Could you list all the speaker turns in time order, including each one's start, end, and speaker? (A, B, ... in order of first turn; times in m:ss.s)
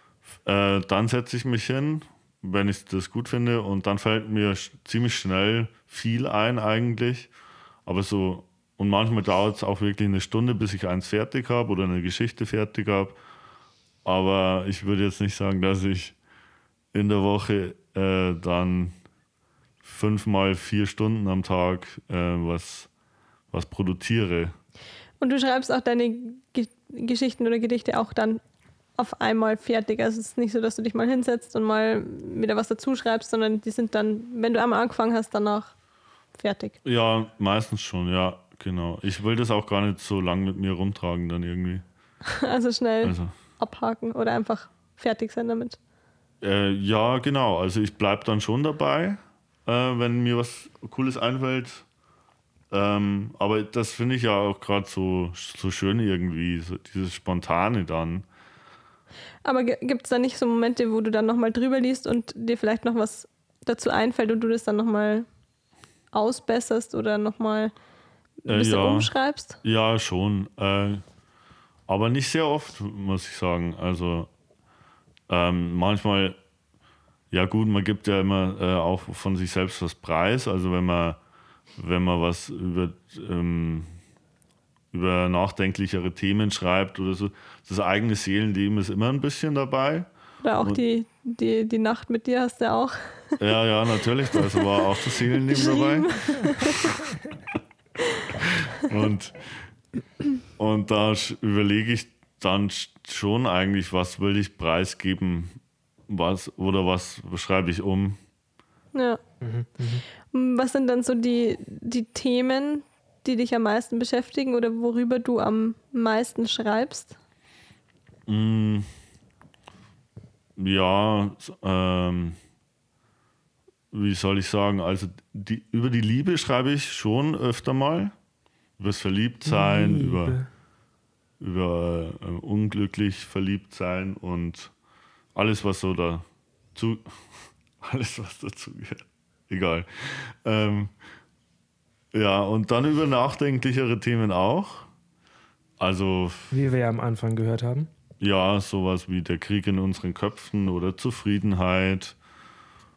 0:00.4-0:07.3 A
0:07.8-0:13.2 A
0:14.0-0:16.1 A
0:16.9-0:18.9 A
0:19.8-0:22.9 A
0:23.5-0:24.5 A
0:25.2-0:28.4 B
0:29.0-0:35.7 B
0:36.4-0:36.8 B
0:36.8-0:41.8 A
0:42.3-0:45.8 B
0:43.0-0:43.3 A
0:46.4-0:51.8 A
0:52.7-0:58.2 A
0:59.4-1:05.3 B
1:06.1-1:07.7 B
1:08.4-1:09.6 B
1:08.5-1:11.0 A
1:11.9-1:14.3 A
1:15.3-1:16.4 A
1:17.3-1:21.2 A
1:21.8-1:23.9 A
1:24.9-1:30.1 A
1:30.4-1:33.3 B
1:33.4-1:37.2 A
1:35.5-1:36.9 B
1:38.7-1:39.7 A
1:40.6-1:48.2 A
1:48.9-1:49.2 B
1:49.4-1:50.0 C
1:50.3-1:57.2 B
1:58.3-1:58.9 A
2:00.6-2:02.4 A
2:03.9-2:08.1 A
2:08.8-2:10.4 A
2:09.4-2:10.5 C
2:11.4-2:14.7 A
2:15.3-2:20.9 A
2:22.1-2:24.9 A
2:25.8-2:26.6 A
2:26.5-2:27.9 C
2:28.2-2:32.2 A